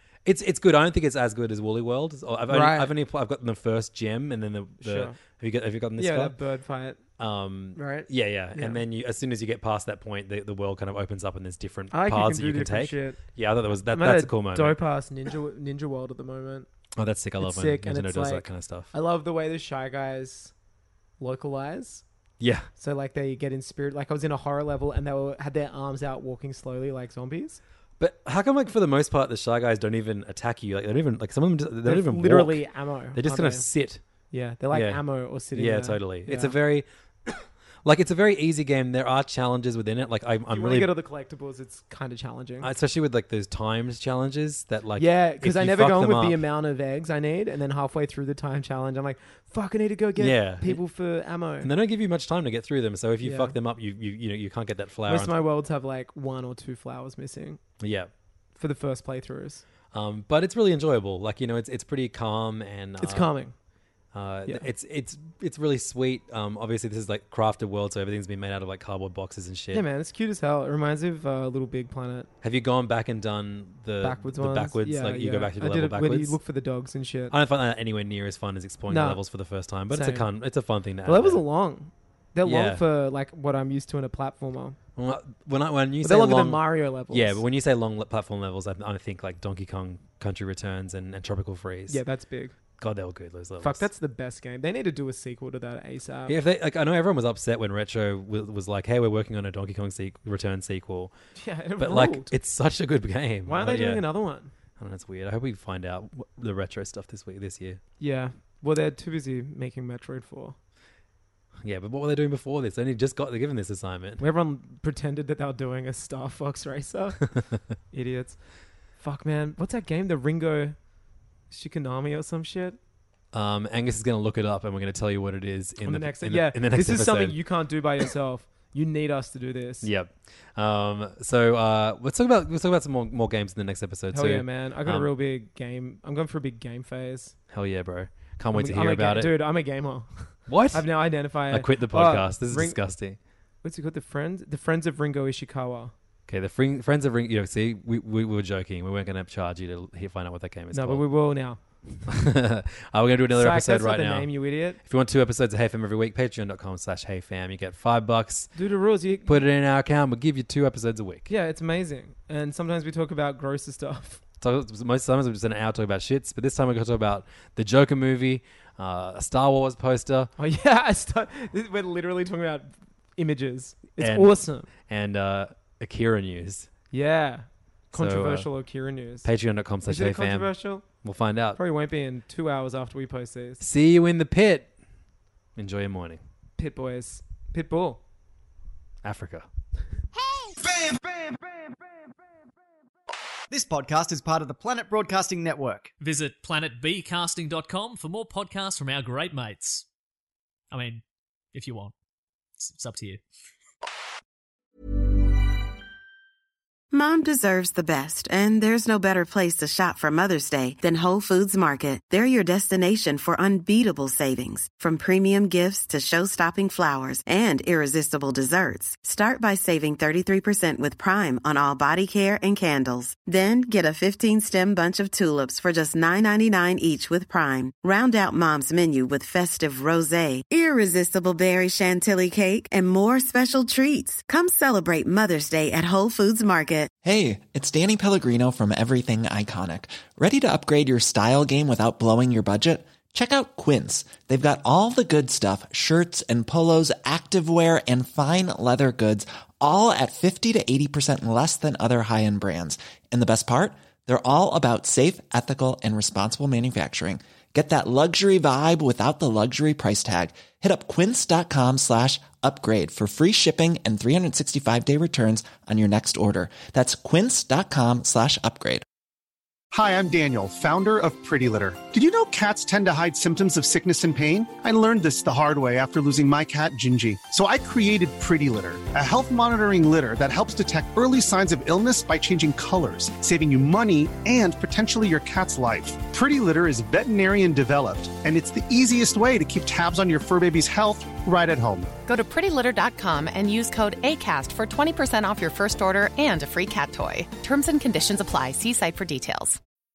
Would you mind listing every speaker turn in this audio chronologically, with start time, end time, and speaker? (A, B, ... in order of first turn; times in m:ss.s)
0:00.2-0:06.4 A
0:02.5-0:02.9 B
0:04.8-0:05.2 B
0:06.0-0:07.0 B
0:07.2-0:14.8 A
0:07.7-0:08.8 B
0:11.9-0:13.2 B
0:13.9-0:16.7 B
0:17.0-0:18.9 A
0:17.4-0:20.5 B
0:21.2-0:22.0 B
0:22.4-0:22.7 A
0:22.8-0:27.6 B
0:28.0-0:34.0 A
0:31.8-0:33.6 B
0:34.3-0:36.5 B
0:34.7-0:40.9 A
0:40.5-0:42.7 B
0:42.6-0:46.4 A
0:45.0-0:51.7 B
0:50.2-0:50.8 A
0:51.6-0:55.3 A
0:53.2-0:53.6 B
0:55.0-0:57.6 B
0:57.8-0:58.1 A
0:58.6-0:59.6 B
0:59.9-1:03.3 A
1:03.0-1:03.5 B
1:04.1-1:09.8 A
1:09.7-1:12.3 B
1:12.4-1:16.4 A
1:14.0-1:17.3 B
1:17.3-1:21.4 A
1:18.9-1:19.2 B
1:19.9-1:20.3 B
1:21.0-1:24.8 B
1:22.4-1:22.8 A
1:25.0-1:32.0 A
1:26.0-1:27.4 B
1:31.9-1:32.5 B
1:32.8-1:33.9 A
1:33.6-1:36.4 B
1:36.2-1:41.1 A
1:41.4-1:42.3 B
1:41.8-1:44.1 A
1:43.4-1:44.5 B
1:44.8-1:47.8 A
1:48.0-1:50.6 B
1:51.6-1:54.2 A
1:54.2-1:57.3 B
1:57.9-1:58.4 B
1:59.0-2:00.8 B
2:01.5-2:02.8 B
2:03.3-2:07.4 A
2:05.8-2:09.9 B
2:09.8-2:15.1 A
2:14.1-2:17.4 B
2:17.5-2:19.3 A
2:18.5-2:22.8 B
2:20.5-2:23.2 A
2:23.6-2:25.9 B
2:26.3-2:31.0 A
2:30.7-2:32.0 B
2:32.1-2:38.5 A
2:33.3-2:34.8 B
2:38.5-2:39.4 B
2:39.2-2:41.3 A
2:41.3-2:44.2 B
2:44.4-2:50.3 A
2:50.4-2:54.7 B
2:54.0-2:56.7 A
2:56.9-2:59.3 B
2:57.9-2:58.5 A
2:59.2-3:01.6 A
2:59.8-3:00.8 B
3:01.6-3:03.6 B
3:03.6-3:04.7 A
3:05.6-3:06.2 A
3:06.6-3:08.0 B
3:09.0-3:09.5 A
3:10.6-3:11.6 C
3:13.5-3:15.9 C
3:16.0-3:19.8 D
3:20.7-3:21.9 D
3:22.6-3:23.2 D
3:26.9-3:56.9 E
3:57.0-4:28.8 F
4:29.7-4:52.0 G
4:52.0-4:59.6 H